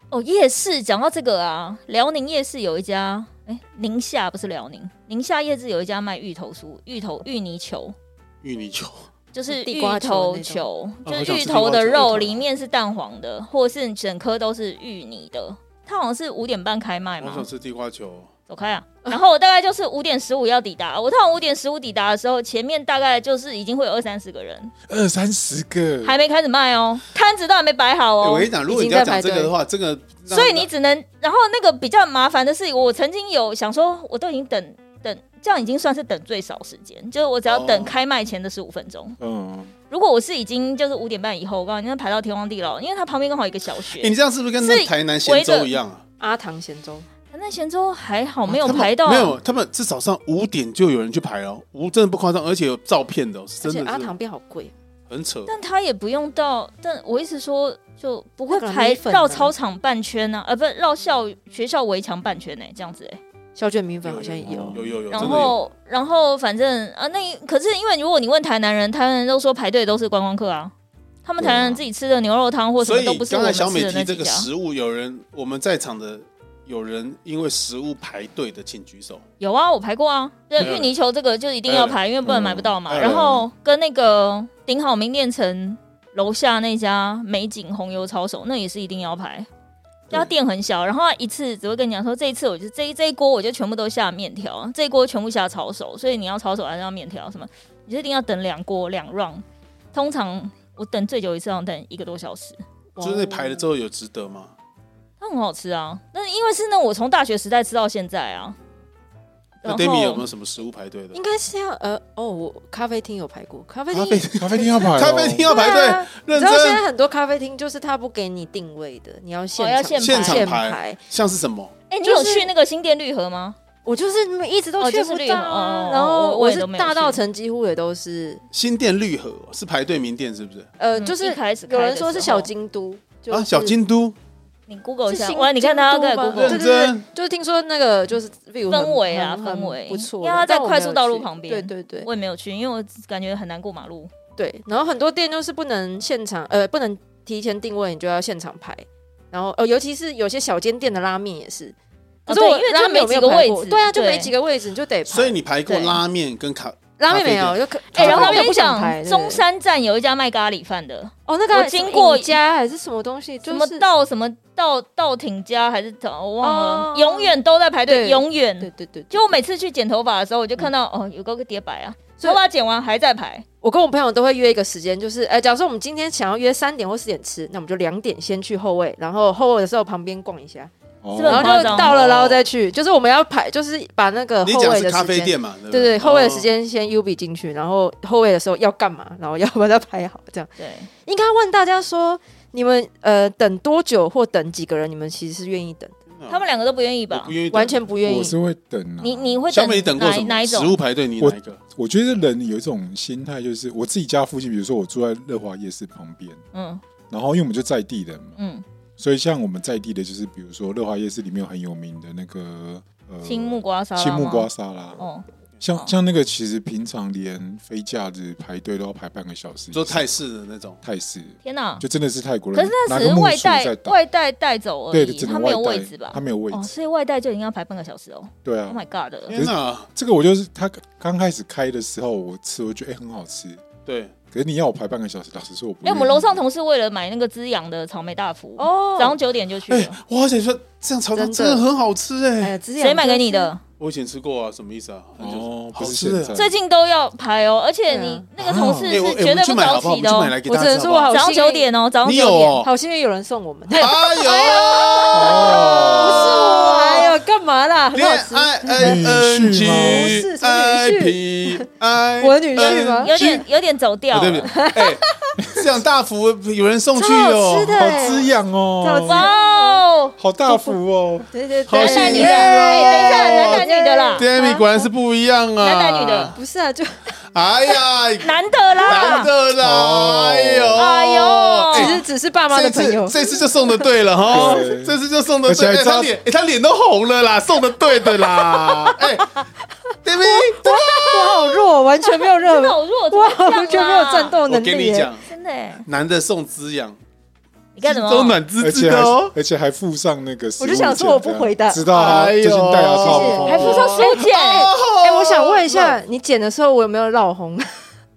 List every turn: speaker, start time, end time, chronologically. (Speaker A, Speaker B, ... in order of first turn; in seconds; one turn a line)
Speaker A: 0.1-7.9
Speaker B: 8.4-9.1
Speaker A: 9.3-17.5
Speaker C: 9.5-10.6
Speaker B: 11.0-12.4
Speaker B: 17.2-18.3
Speaker A: 18.5-24.7
Speaker D: 24.9-26.1
Speaker A: 26.0-28.5
Speaker B: 28.2-30.7
Speaker C: 28.6-29.5
Speaker A: 30.3-39.1
Speaker B: 37.5-37.9
Speaker D: 39.2-39.7
Speaker A: 39.9-45.7
Speaker B: 43.9-46.0
Speaker C: 46.2-47.0
Speaker A: 47.3-49.4
Speaker B: 48.5-54.1
Speaker C: 53.6-54.7
Speaker B: 55.1-55.5
Speaker A: 55.5-63.2
Speaker C: 58.5-59.5
Speaker C: 63.5-64.8
Speaker B: 64.0-65.6
Speaker D: 64.4-65.5
Speaker A: 65.1-70.7
Speaker A: 71.2-74.5
Speaker D: 71.4-71.8
Speaker B: 72.8-79.2
Speaker A: 79.4-89.5
Speaker B: 80.6-80.9
Speaker B: 81.7-82.0
Speaker D: 82.2-83.4
Speaker B: 82.9-83.2
Speaker A: 90.1-102.6
Speaker C: 103.0-103.7
Speaker B: 103.0-104.5
Speaker A: 105.2-108.5
Speaker A: 109.6-110.2
Speaker B: 109.6-111.2
Speaker C: 111.1-114.9
Speaker D: 113.9-115.5
Speaker B: 114.3-116.8
Speaker C: 115.5-121.0
Speaker A: 119.5-120.5
Speaker B: 120.0-121.7
Speaker A: 121.9-123.6
Speaker C: 122.0-122.5
Speaker C: 123.8-128.4
Speaker A: 124.8-127.2
Speaker B: 128.5-130.7
Speaker C: 130.8-133.7
Speaker A: 130.9-132.5
Speaker B: 133.3-134.2
Speaker A: 134.7-136.6
Speaker C: 135.1-142.1
Speaker B: 136.3-137.0
Speaker A: 138.7-144.1
Speaker C: 144.4-155.3
Speaker A: 152.3-154.3
Speaker B: 155.1-158.5
Speaker A: 155.7-156.0
Speaker C: 157.0-159.4
Speaker A: 157.9-162.4
Speaker C: 161.2-163.8
Speaker A: 163.4-173.4
Speaker C: 166.4-167.3
Speaker C: 167.9-169.4
Speaker C: 173.6-180.7
Speaker D: 181.0-181.5
Speaker A: 181.1-182.0
Speaker C: 181.2-190.5
Speaker B: 181.5-182.4
Speaker B: 184.4-186.5
Speaker A: 190.6-190.9
Speaker C: 191.0-195.9
Speaker B: 196.1-196.5
Speaker A: 196.3-197.3
Speaker B: 197.1-197.8
Speaker C: 197.5-198.3
Speaker D: 198.0-199.4
Speaker A: 199.0-200.8
Speaker B: 199.5-201.6
Speaker D: 201.2-206.4
Speaker A: 206.5-206.8
Speaker D: 207.1-208.4
Speaker A: 208.4-208.6
Speaker D: 209.0-215.0
Speaker A: 213.2-215.2
Speaker D: 215.6-220.0
Speaker B: 219.7-220.8
Speaker D: 220.8-224.0
Speaker A: 221.4-221.8
Speaker A: 222.5-229.3
Speaker D: 224.9-226.7
Speaker D: 228.4-228.8
Speaker B: 229.3-229.9
Speaker D: 229.3-233.6
Speaker B: 233.8-234.1
Speaker D: 234.3-236.4
Speaker A: 235.8-240.0
Speaker C: 238.6-239.2
Speaker B: 239.7-242.6
Speaker C: 241.1-241.6
Speaker C: 242.4-243.5
Speaker A: 242.8-243.6
Speaker B: 243.8-246.4
Speaker D: 245.2-246.5
Speaker A: 246.3-250.3
Speaker C: 247.9-248.2
Speaker D: 248.4-249.0
Speaker B: 248.9-251.2
Speaker C: 250.4-251.7
Speaker A: 251.1-252.7
Speaker B: 252.0-252.7
Speaker C: 252.6-259.0
Speaker A: 253.7-257.1
Speaker B: 253.7-256.6
Speaker D: 255.1-256.3
Speaker B: 257.9-263.4
Speaker D: 258.7-260.2
Speaker C: 259.7-261.6
Speaker C: 262.2-263.1
Speaker A: 262.5-264.6
Speaker B: 264.1-268.1
Speaker C: 264.5-265.4
Speaker C: 266.9-268.3
Speaker D: 267.7-269.3
Speaker C: 268.8-269.9
Speaker A: 269.0-270.1
Speaker D: 270.2-271.3
Speaker C: 270.5-270.8
Speaker C: 271.3-274.9
Speaker B: 271.7-276.4
Speaker A: 271.8-274.3
Speaker A: 275.6-276.4
Speaker C: 276.3-277.2
Speaker B: 277.3-289.4
Speaker A: 278.2-279.3
Speaker C: 278.9-279.1
Speaker D: 279.6-280.8
Speaker A: 280.8-282.0
Speaker C: 281.7-284.7
Speaker D: 284.3-286.1
Speaker C: 288.2-289.4
Speaker B: 290.0-291.6
Speaker C: 290.2-295.1
Speaker A: 292.3-294.4
Speaker B: 294.5-295.3
Speaker A: 295.2-295.8
Speaker B: 295.8-297.0
Speaker A: 297.8-298.4
Speaker B: 297.8-299.3
Speaker D: 298.6-304.0
Speaker C: 300.6-302.1
Speaker B: 301.9-306.0
Speaker C: 303.0-307.8
Speaker A: 303.5-304.7